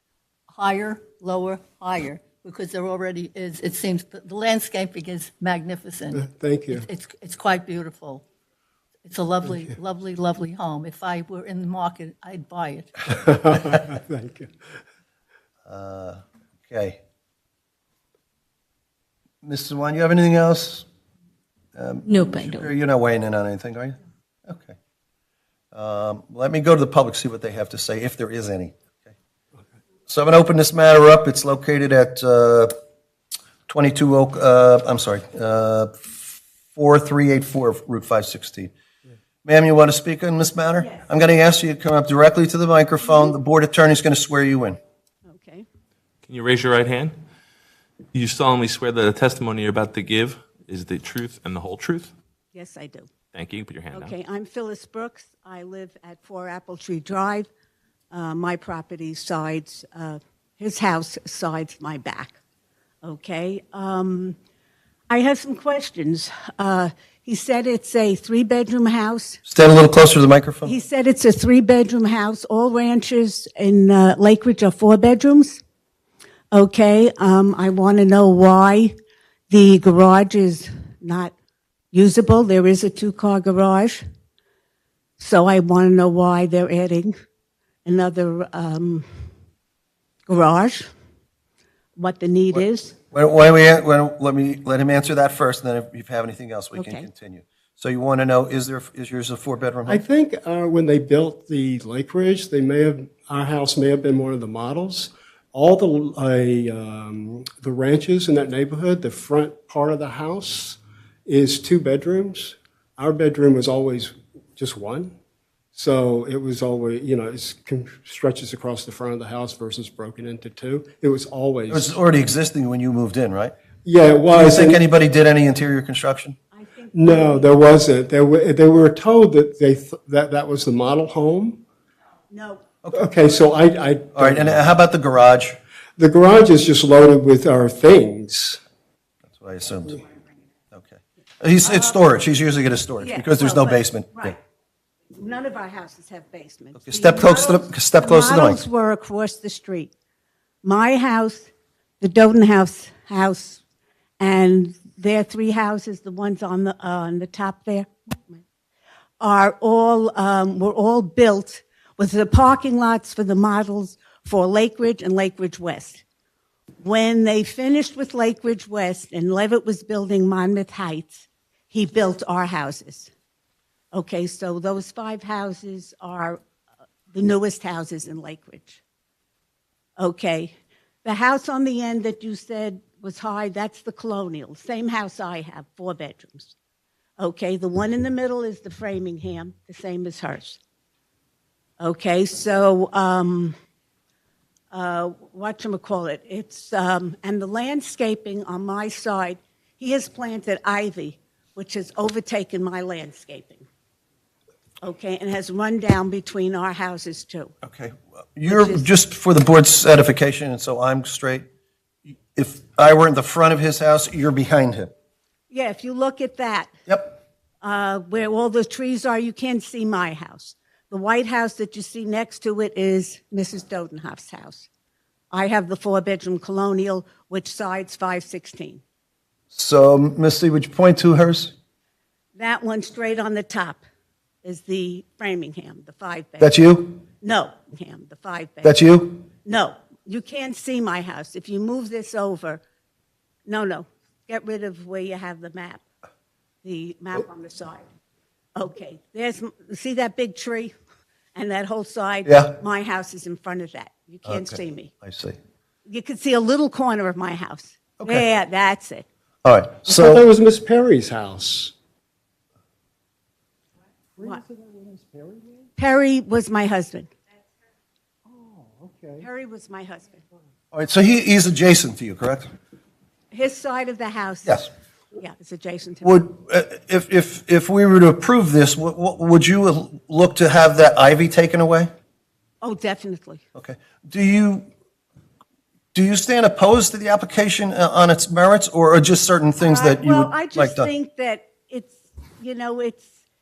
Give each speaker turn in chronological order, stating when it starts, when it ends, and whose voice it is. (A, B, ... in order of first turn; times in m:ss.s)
0:00.5-0:08.2 A
0:06.2-0:06.9 B
0:09.0-0:13.1 A
0:13.1-0:14.5 B
0:15.7-0:17.0 C
0:19.4-0:20.9 C
0:21.8-0:24.8 C
0:25.7-0:29.1 C
0:30.1-0:32.7 C
0:33.7-0:38.7 C
0:39.4-0:44.8 C
0:45.3-0:45.7 D
0:46.3-0:47.2 E
0:48.1-0:52.1 E
0:52.5-0:53.1 D
0:53.3-0:54.1 E
0:53.9-0:57.5 D
0:58.1-1:02.4 D
1:03.0-1:04.4 D
1:05.1-1:09.4 D
1:09.5-1:10.7 C
1:10.6-1:15.6 D
1:16.5-1:18.9 D
1:19.5-1:21.3 D
1:21.9-1:24.0 D
1:25.2-1:27.1 D
1:27.8-1:29.1 D
1:30.3-1:30.9 D
1:32.0-1:33.0 D
1:32.5-1:40.0 C
1:36.8-1:37.1 D
1:39.9-1:55.1 B
1:55.8-2:02.0 B
2:01.7-2:03.5 C
2:03.8-2:04.8 B
2:04.3-2:06.4 C
2:06.5-2:07.5 D
2:06.9-2:11.6 B
2:12.3-2:12.6 D
2:12.9-2:14.7 B
2:14.2-2:15.6 C
2:16.0-2:18.6 B
2:19.3-2:20.0 C
2:20.7-2:24.3 C
2:21.6-2:22.0 D
2:23.0-2:24.4 D
2:25.1-2:29.9 D
2:26.8-2:28.6 C
2:30.6-2:31.5 D
2:32.0-2:33.6 D
2:34.2-2:38.4 D
2:39.2-2:46.0 D
2:46.8-2:53.1 D
2:53.9-2:56.4 D
2:57.1-2:58.8 D
3:00.0-3:06.5 D
3:07.2-3:10.6 D
3:11.8-3:13.6 D
3:14.7-3:23.7 D
3:24.8-3:27.5 D
3:27.6-3:31.5 C
3:28.5-3:28.9 D
3:32.3-3:34.9 C
3:35.5-3:36.7 D
3:36.9-3:37.2 C
3:37.6-3:44.7 D
3:45.3-3:48.8 D
3:49.5-3:51.5 C
3:52.4-3:53.8 D
3:54.4-3:56.6 D
3:56.4-3:57.0 C
3:57.2-3:58.8 D
3:58.6-3:59.3 C
3:59.4-4:02.6 D
4:03.5-4:05.8 D
4:06.6-4:07.9 D
4:08.6-4:10.7 D
4:11.4-4:14.9 D
4:12.3-4:12.6 C
4:14.3-4:15.4 C
4:15.8-4:19.0 D
4:19.4-4:20.2 C
4:19.9-4:21.7 B
4:24.2-4:25.7 B
4:25.8-4:27.1 D
4:28.3-4:29.3 B
4:29.2-4:30.2 D
4:30.7-4:32.5 C
4:33.3-4:36.2 D
4:36.0-4:41.9 C
4:42.6-4:43.4 D
4:43.6-4:44.7 C
4:45.9-4:50.9 C
4:49.6-4:53.2 D